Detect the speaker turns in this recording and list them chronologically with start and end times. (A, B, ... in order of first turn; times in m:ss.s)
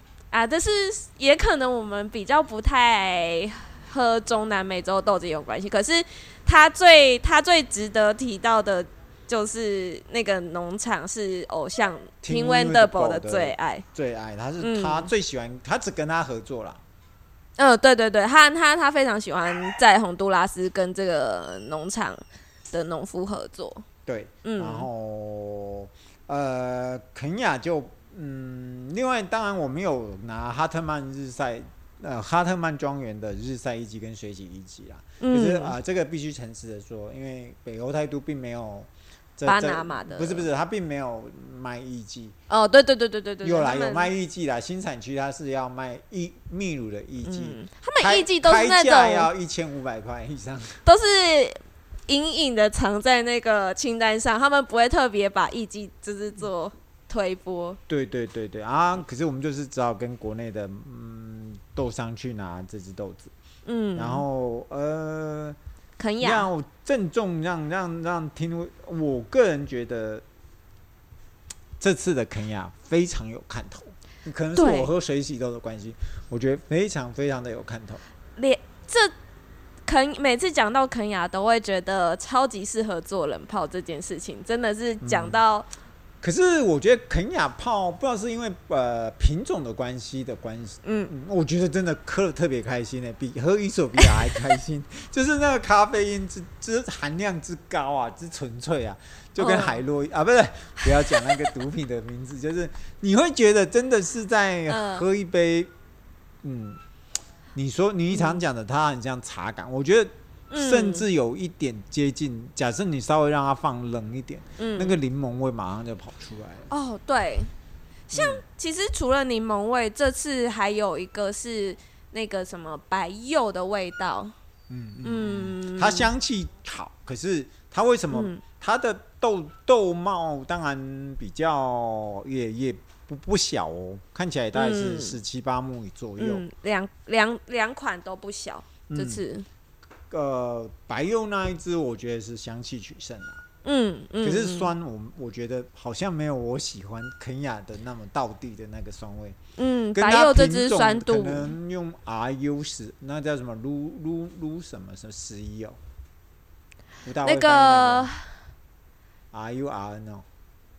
0:00.3-0:13.8 A
0:12.2-0:16.8 B
0:14.6-0:15.1 A
0:17.6-0:23.8 A
0:24.1-0:42.4 B
0:24.4-0:24.9 A
0:35.2-0:35.8 A
0:39.4-0:40.5 A
0:42.5-0:44.1 A
0:43.4-0:50.8 B
0:47.2-0:49.3 A
0:50.8-0:57.8 A
0:57.9-1:03.3 B
1:03.6-1:04.2 A
1:04.0-1:05.6 B
1:06.0-1:06.5 A
1:06.2-1:10.2 B
1:11.8-1:18.0 B
1:14.6-1:14.9 A
1:18.4-1:19.1 A
1:19.8-1:25.7 A
1:25.0-1:25.4 B
1:26.2-1:45.7 B
1:30.8-1:31.1 A
1:39.4-1:39.8 A
1:40.8-1:41.5 A
1:44.7-1:45.1 A
1:46.4-1:46.8 B
1:47.5-1:56.7 B
1:48.1-1:48.4 A
1:50.5-1:51.1 A
1:54.6-1:55.0 A
1:56.7-1:57.5 A
1:58.1-2:04.3 A
1:58.1-1:58.4 B
2:04.7-2:16.5 B
2:05.0-2:06.1 A
2:08.1-2:08.4 A
2:14.5-2:15.2 A
2:16.2-2:19.5 A
2:18.9-2:19.2 B
2:20.1-2:23.4 B
2:23.6-2:24.7 A
2:24.2-2:29.4 B
2:29.6-2:31.5 A
2:29.9-2:35.8 B
2:37.0-2:38.1 B
2:37.2-2:38.3 A
2:39.3-2:40.2 B